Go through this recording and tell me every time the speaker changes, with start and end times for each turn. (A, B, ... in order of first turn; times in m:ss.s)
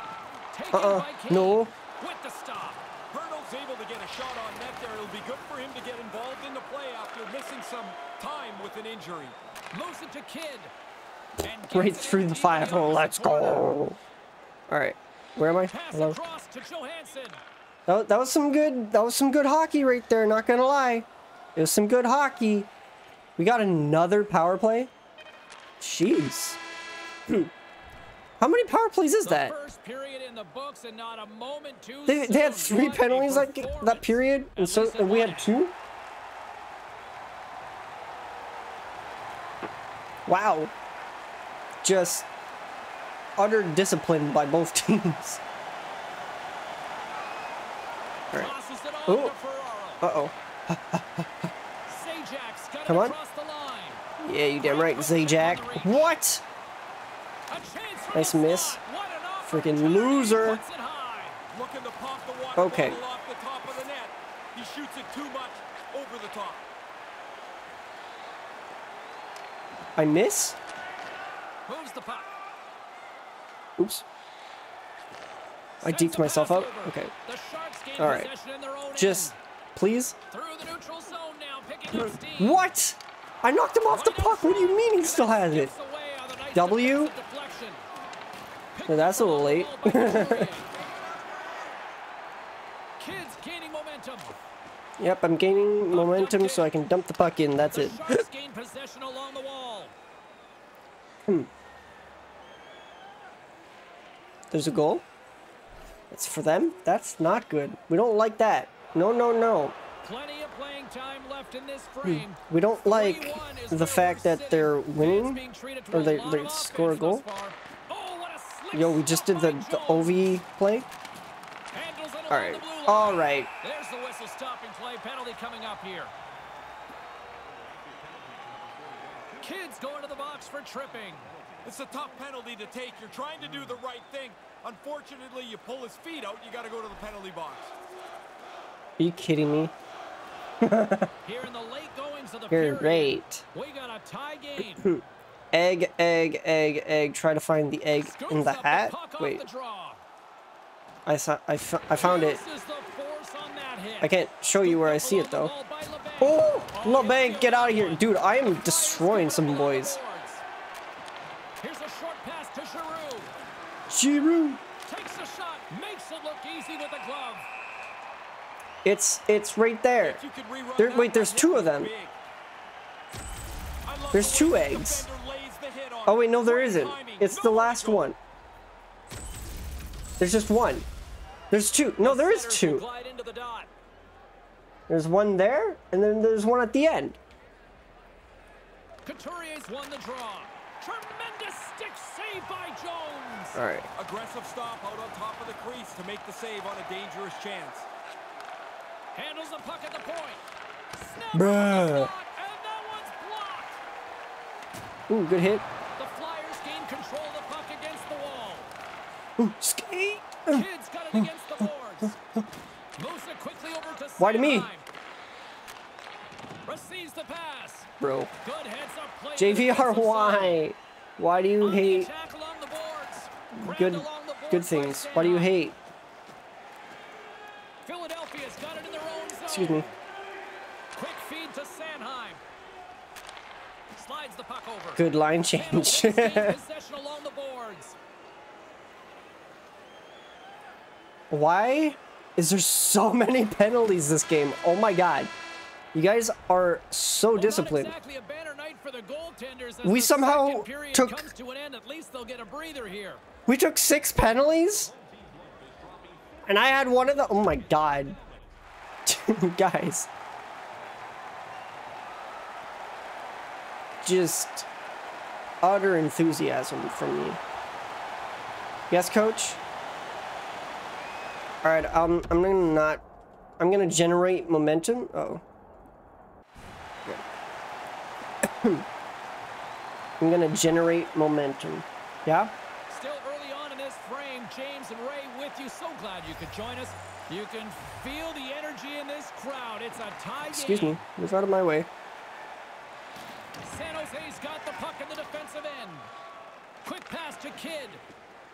0:00.5-0:02.8 A
0:00.7-0:01.7 B
0:03.1-0:09.4 C
0:09.7-0:10.7 A
0:11.4-0:13.8 A
0:11.7-0:14.0 B
0:14.7-0:16.2 B
0:15.7-0:17.4 A
0:17.9-0:22.7 B
0:23.4-0:24.9 B
0:25.8-0:26.6 B
0:28.4-0:29.5 B
0:29.2-0:35.5 A
0:32.1-0:35.7 B
0:40.2-0:40.7 B
0:41.8-0:42.3 B
0:43.4-0:45.4 B
0:48.3-0:50.1 A
0:49.0-0:49.3 B
0:50.0-0:51.5 B
0:51.9-0:54.0 A
0:52.8-0:53.2 B
0:54.2-0:56.4 B
0:54.6-0:56.1 A
0:57.5-1:01.4 A
0:58.1-0:58.8 B
0:59.4-1:00.6 B
1:01.5-1:06.7 C
1:02.6-1:03.0 B
1:10.0-1:10.6 B
1:11.7-1:12.3 A
1:13.8-1:14.0 B
1:15.8-1:17.1 B
1:15.8-1:19.4 A
1:18.0-1:18.3 B
1:18.9-1:20.2 B
1:20.3-1:22.7 A
1:21.9-1:25.7 B
1:23.9-1:27.8 A
1:26.5-1:27.1 B
1:28.7-1:30.7 A
1:28.9-1:30.5 B
1:33.0-1:34.4 A
1:35.0-1:38.2 B
1:35.9-1:36.7 A
1:37.7-1:39.9 A
1:44.5-1:45.0 B
1:46.1-1:49.8 B
1:50.0-2:00.4 A
1:52.0-1:57.2 B
1:58.7-2:00.9 B
2:01.7-2:06.1 A
2:02.3-2:03.5 B
2:09.4-2:11.3 A
2:11.6-2:17.7 C
2:19.0-2:19.7 B
2:20.6-2:21.1 B
2:21.2-2:24.9 A
2:22.5-2:23.4 B
2:24.6-2:29.4 B
2:28.0-2:30.0 A
2:31.0-2:32.4 B
2:31.9-2:40.4 A
2:34.0-2:35.5 B
2:36.2-2:40.0 B
2:41.6-2:43.3 A
2:43.9-2:44.6 B
2:44.8-2:47.4 A
2:48.8-2:50.2 B
2:50.0-2:52.1 C
2:50.8-2:51.9 B
2:53.8-2:58.1 C
2:54.1-2:55.1 B
2:56.1-2:58.2 B
3:00.2-3:00.9 B
3:01.5-3:02.8 B
3:02.0-3:03.7 A
3:04.9-3:07.2 B
3:09.0-3:13.6 A
3:13.5-3:13.8 B
3:14.0-3:17.9 C
3:19.1-3:20.4 A
3:21.0-3:23.8 A
3:21.3-3:22.1 B
3:25.1-3:25.6 B
3:26.0-3:28.7 A
3:29.4-3:31.3 B
3:30.5-3:32.1 A
3:33.0-3:34.8 A
3:34.2-3:34.7 B
3:36.6-3:37.9 A
3:38.0-3:38.3 B
3:38.4-3:40.6 A
3:39.4-3:42.1 B
3:41.6-3:45.6 A
3:43.5-3:45.8 B
3:47.8-3:49.9 A
3:49.5-3:49.9 B
3:50.9-3:52.4 A
3:53.9-3:58.0 A
3:55.0-3:56.6 B
4:01.3-4:05.3 B
4:05.9-4:07.9 B
4:07.3-4:13.2 A
4:09.8-4:11.3 B
4:13.5-4:14.9 B
4:14.9-4:16.2 C
4:16.4-4:18.2 B
4:19.0-4:20.1 B
4:24.0-4:24.7 B
4:25.6-4:27.4 B
4:28.9-4:29.6 B
4:31.6-4:33.0 B
4:33.6-4:35.4 B
4:38.4-4:38.8 B
4:40.2-4:42.5 B
4:42.9-4:51.0 A
4:50.5-4:51.9 B
4:53.6-4:56.1 A
4:56.8-4:58.0 A